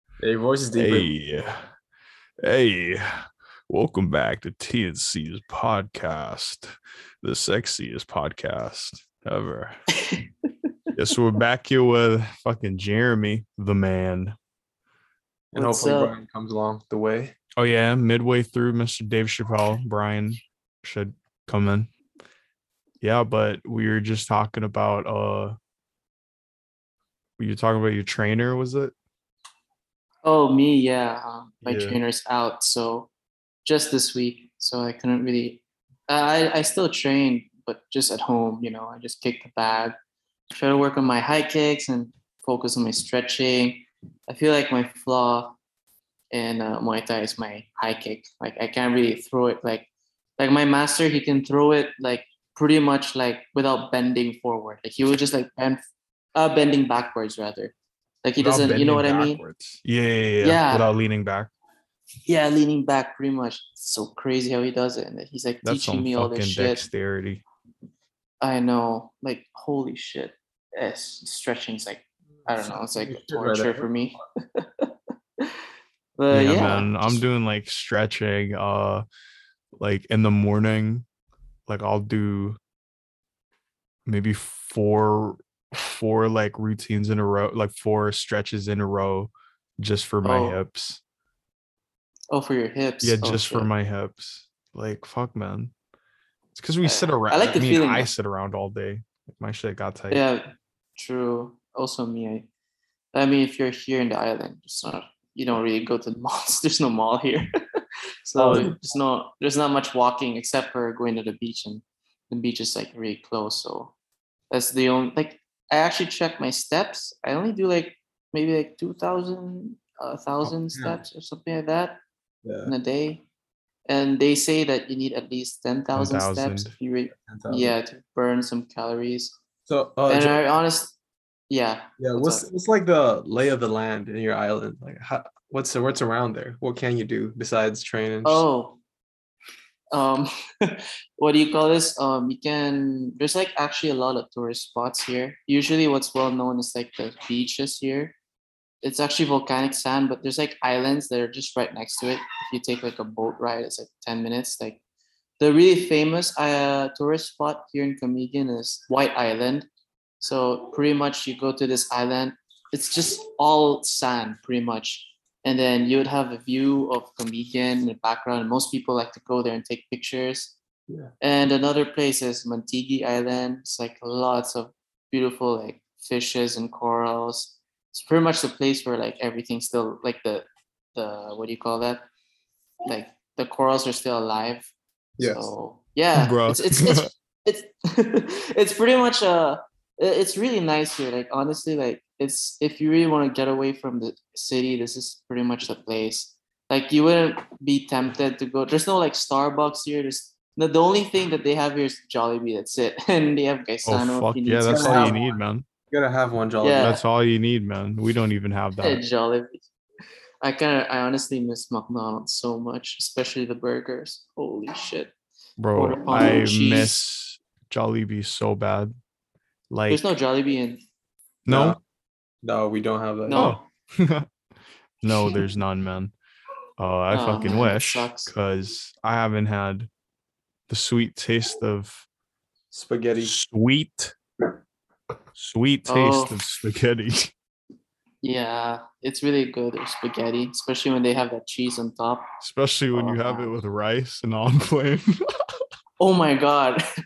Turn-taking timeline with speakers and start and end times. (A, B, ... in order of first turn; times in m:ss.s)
0:00.2-0:01.1 A
0:00.8-0:01.7 B
0:02.4-0:09.8 B
0:11.0-0:14.4 B
0:15.5-0:17.4 A
0:15.6-0:16.2 C
0:17.6-0:21.9 B
0:23.0-0:25.6 B
0:27.4-0:28.9 B
0:30.2-0:33.1 C
0:31.6-0:32.0 B
0:33.6-0:40.0 C
0:40.5-0:45.6 C
0:46.3-0:55.8 C
0:56.4-0:59.4 C
0:58.4-1:01.5 B
1:00.4-1:00.9 C
1:02.3-1:06.9 C
1:05.6-1:07.4 B
1:08.4-1:14.9 C
1:12.6-1:13.9 A
1:16.2-1:17.2 C
1:16.3-1:19.0 B
1:19.8-1:21.1 B
1:21.7-1:22.6 B
1:24.1-1:31.0 B
1:30.2-1:30.6 C
1:32.3-1:33.7 C
1:33.0-1:35.7 B
1:36.6-1:40.2 B
1:36.8-1:38.1 C
1:40.1-1:42.5 C
1:43.1-1:47.5 C
1:48.3-1:48.8 A
1:48.4-1:53.9 C
1:54.5-2:02.0 C
2:02.4-2:02.7 A
2:02.7-2:03.2 C
2:03.9-2:09.3 C
2:06.0-2:06.7 B
2:07.2-2:07.8 A
2:09.7-2:10.4 A
2:10.1-2:10.9 C
2:11.5-2:12.5 C
2:12.0-2:18.4 A
2:18.2-2:18.8 C
2:19.9-2:28.2 C
2:28.8-2:34.8 C
2:35.4-2:39.7 C
2:40.2-2:50.5 C
2:51.2-3:02.1 C
3:02.8-3:25.2 C
3:05.2-3:05.5 A
3:06.2-3:07.1 B
3:23.9-3:25.7 B
3:24.6-3:25.4 A
3:25.9-3:26.9 A
3:26.6-3:27.0 C
3:26.8-3:29.0 B
3:28.8-3:29.6 C
3:30.4-3:35.1 C
3:35.6-3:38.9 B
3:35.8-3:37.0 C
3:39.7-3:40.0 B
3:39.9-3:40.8 C
3:41.5-3:41.8 B
3:41.5-3:41.8 A
3:42.4-3:43.5 A
3:43.3-3:43.6 C
3:43.3-3:44.3 B
3:45.0-3:46.1 B
3:46.8-3:49.9 B
3:47.1-3:48.3 C
3:50.7-3:52.0 B
3:52.7-3:53.3 A
3:53.2-3:54.1 B
3:55.4-3:57.3 B
3:55.9-3:56.4 C
3:58.2-4:02.3 C
4:02.4-4:05.4 B
4:02.9-4:03.5 C
4:06.0-4:06.8 C